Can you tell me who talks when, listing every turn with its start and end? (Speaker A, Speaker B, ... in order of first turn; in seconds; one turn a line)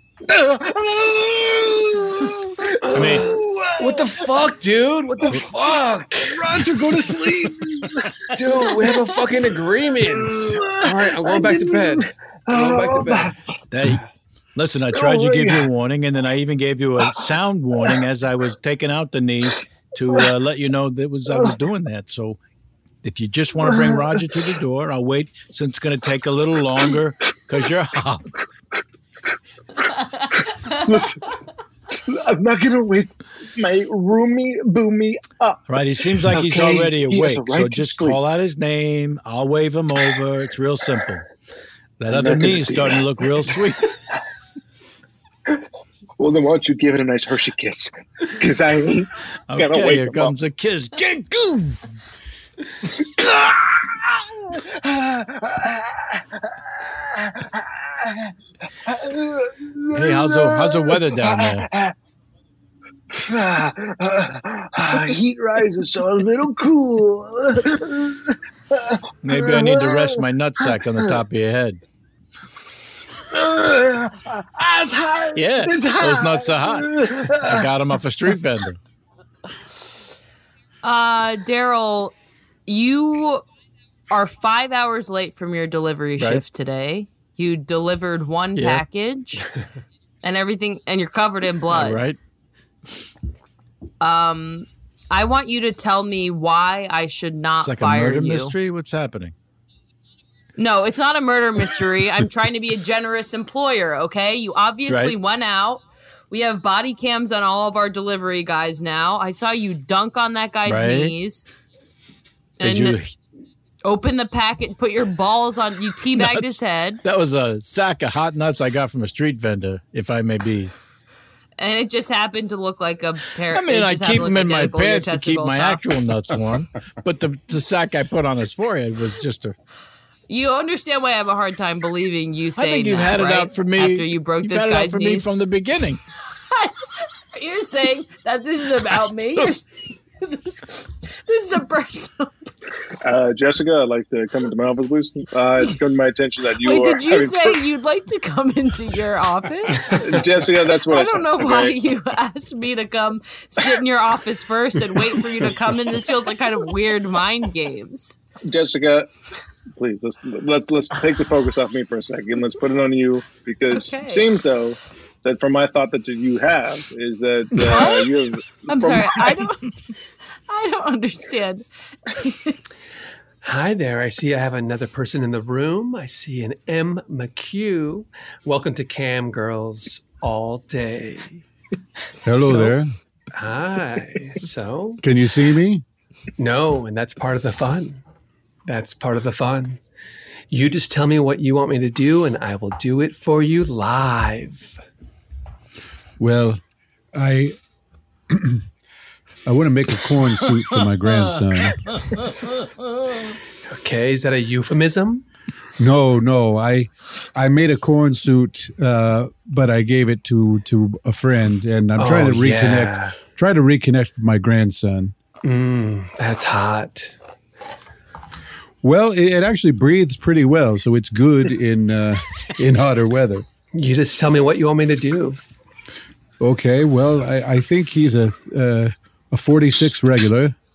Speaker A: 0.2-4.0
Speaker B: 2.8-6.5
Speaker C: 2.9-3.3
Speaker A: 6.4-7.9
Speaker B: 8.3-13.3
Speaker A: 10.0-13.3
Speaker C: 13.7-14.0
Speaker C: 14.6-22.4
Speaker A: 14.9-15.6
Speaker C: 23.0-28.3
Speaker A: 23.6-24.3
Speaker D: 29.9-31.0
Speaker A: 30.8-31.2
Speaker A: 31.9-35.6
Speaker C: 35.7-41.2
Speaker A: 36.2-38.2
Speaker C: 42.0-43.9
Speaker A: 42.1-43.0
Speaker A: 46.2-50.3
Speaker C: 49.5-52.0
Speaker A: 53.0-55.8
Speaker A: 57.2-58.3
Speaker A: 58.8-61.9
Speaker C: 59.9-61.7
Speaker A: 63.1-68.2
Speaker A: 68.7-70.1
Speaker C: 69.2-71.8
Speaker A: 73.3-77.6
Speaker C: 75.3-78.8
Speaker D: 80.8-82.1
Speaker D: 82.7-83.4
Speaker D: 84.1-89.4
Speaker C: 86.2-86.4
Speaker C: 88.5-88.8
Speaker D: 90.2-92.0
Speaker C: 91.7-92.2
Speaker D: 94.0-98.5
Speaker C: 97.6-99.3
Speaker D: 100.6-111.5
Speaker C: 104.9-105.2
Speaker C: 110.6-111.1
Speaker D: 112.6-113.0
Speaker C: 112.6-113.1
Speaker D: 113.8-117.0
Speaker C: 116.1-120.7
Speaker D: 121.6-125.8
Speaker C: 123.5-129.6
Speaker D: 130.3-135.3
Speaker C: 132.6-136.0
Speaker D: 137.3-142.5
Speaker A: 143.0-147.6
Speaker D: 146.6-150.1
Speaker A: 149.9-151.8
Speaker D: 150.8-158.2
Speaker A: 158.5-159.1
Speaker A: 159.8-169.4
Speaker D: 163.7-164.3
Speaker D: 167.6-169.7
Speaker D: 170.5-171.6
Speaker D: 172.2-172.6
Speaker B: 173.4-181.4
Speaker E: 182.2-182.9
Speaker B: 182.4-182.8
Speaker B: 183.3-185.0
Speaker E: 185.0-185.8
Speaker B: 186.4-188.0
Speaker B: 188.7-189.8
Speaker B: 190.5-194.8
Speaker E: 196.2-196.6
Speaker E: 197.1-197.6
Speaker E: 198.3-198.6
Speaker E: 199.4-201.8
Speaker B: 203.7-205.2
Speaker E: 205.8-215.1
Speaker B: 211.9-213.2
Speaker B: 215.4-217.1
Speaker E: 218.8-223.4
Speaker B: 223.7-225.4
Speaker E: 226.4-230.5